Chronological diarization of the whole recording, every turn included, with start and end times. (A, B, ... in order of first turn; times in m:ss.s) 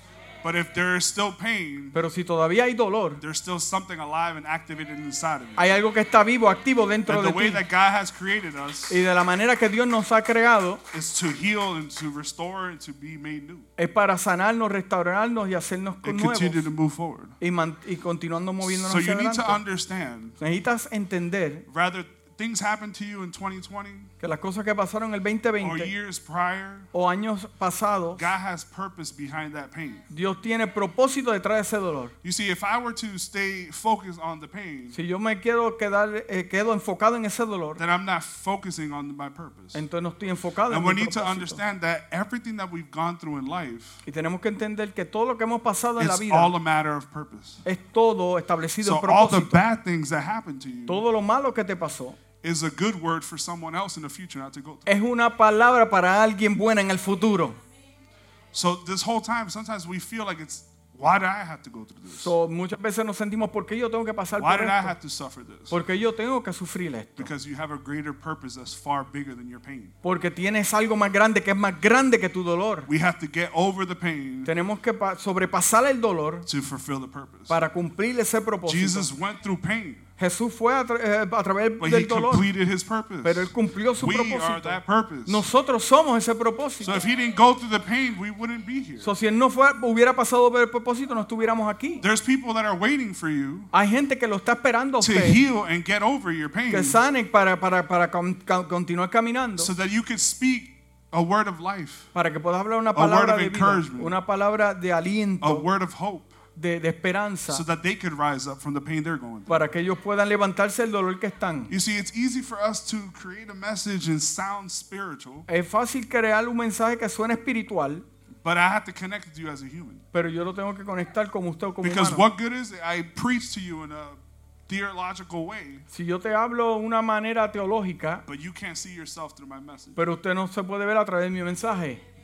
0:00.4-0:02.0 A
0:01.9-0:03.2 B
0:03.2-0:05.7 A
0:05.6-0:07.6 B
0:07.1-0:09.0 A
0:08.9-0:10.8 B
0:10.9-0:13.7 A
0:13.8-0:16.7 B
0:16.0-0:17.4 A
0:17.4-0:19.6 B
0:18.6-0:20.4 A
0:20.4-0:21.6 B
0:21.7-0:24.1 A
0:24.2-0:25.9 B
0:25.6-0:26.9 A
0:26.9-0:28.3 B
0:28.1-0:30.1 A
0:30.1-0:32.1 B
0:32.2-0:35.0 A
0:34.9-0:37.8 B
0:37.8-0:39.8 A
0:39.7-0:41.6 B
0:40.7-0:44.0 A
0:44.0-0:46.5 B
0:46.0-0:47.6 A
0:47.6-0:49.6 B
0:48.8-0:51.0 A
0:50.9-0:52.2 B
0:52.4-0:54.9 A
0:54.8-0:57.6 B
0:58.5-1:02.3 A
1:02.1-1:04.9 B
1:04.4-1:05.8 A
1:05.7-1:07.3 B
1:07.2-1:10.0 A
1:10.0-1:12.9 B
1:12.9-1:14.5 A
1:14.4-1:16.5 B
1:16.4-1:17.6 A
1:17.5-1:19.1 B
1:18.6-1:20.0 A
1:20.2-1:22.5 B
1:21.8-1:25.4 A
1:23.2-1:27.0 B
1:26.8-1:29.1 A
1:29.0-1:32.0 B
1:32.0-1:33.7 A
1:33.7-1:35.4 B
1:35.0-1:37.0 A
1:36.7-1:39.7 B
1:39.6-1:42.1 A
1:42.1-1:45.6 B
1:42.9-1:44.1 A
1:45.4-1:46.4 A
1:46.6-1:47.6 B
1:47.5-1:49.6 A
1:49.5-1:51.7 B
1:51.7-1:55.5 A
1:55.5-1:58.0 B
1:58.4-2:00.0 A
2:00.1-2:02.2 B
2:01.8-2:05.8 A
2:05.9-2:08.2 B
2:08.3-2:10.0 A
2:10.0-2:12.0 B